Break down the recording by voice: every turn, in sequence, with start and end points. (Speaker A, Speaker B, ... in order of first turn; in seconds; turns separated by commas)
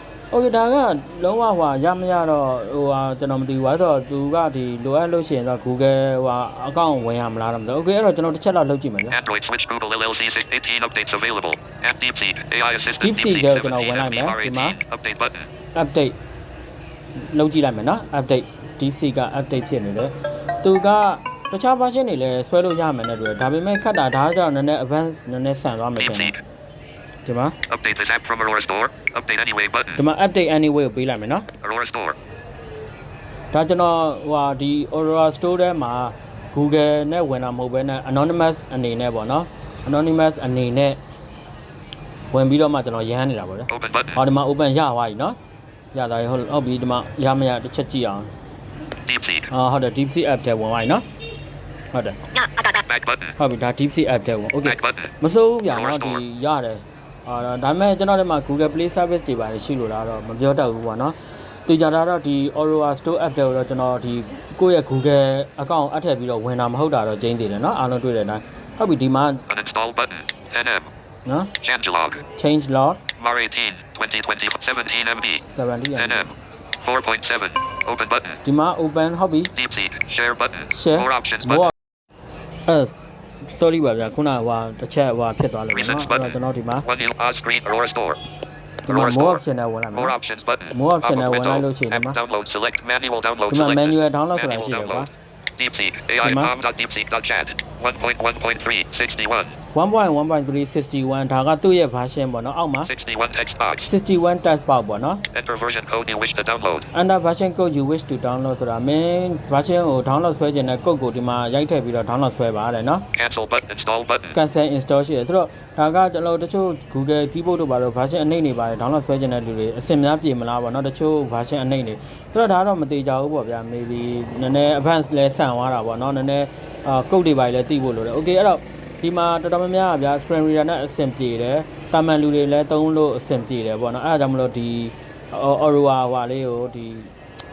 Speaker A: 0.3-9.2, Speaker B: 9.1-15.5, Speaker A: 13.0-14.8, Speaker A: 15.7-16.1, Speaker A: 17.2-26.3, Speaker B: 26.0-26.4, Speaker A: 27.2-27.6, Speaker B: 27.7-30.0, Speaker A: 29.9-31.5, Speaker B: 31.6-32.2, Speaker A: 33.5-41.0, Speaker A: 42.3-45.4, Speaker B: 43.7-44.2, Speaker A: 45.9-48.3, Speaker B: 49.0-49.5, Speaker A: 49.5-51.0, Speaker A: 51.9-52.2, Speaker B: 52.3-53.4, Speaker A: 53.4-69.4, Speaker B: 54.6-55.1, Speaker B: 55.7-56.2, Speaker B: 69.5-70.9, Speaker A: 71.2-71.5, Speaker B: 71.6-72.2, Speaker A: 72.3-73.0, Speaker B: 73.2-75.4, Speaker A: 75.5-76.3, Speaker B: 76.0-78.4, Speaker A: 78.4-79.5, Speaker B: 79.5-81.7, Speaker A: 80.7-81.7, Speaker A: 82.7-86.9, Speaker B: 85.7-88.2, Speaker A: 88.8-90.1, Speaker B: 88.9-89.4, Speaker B: 89.9-99.5, Speaker A: 90.7-92.2, Speaker A: 93.5-95.1, Speaker A: 96.2-96.5, Speaker A: 99.7-102.9, Speaker B: 102.8-103.9, Speaker A: 103.8-105.2, Speaker B: 105.3-106.9, Speaker A: 106.9-113.0, Speaker B: 113.1-114.4, Speaker A: 114.3-137.1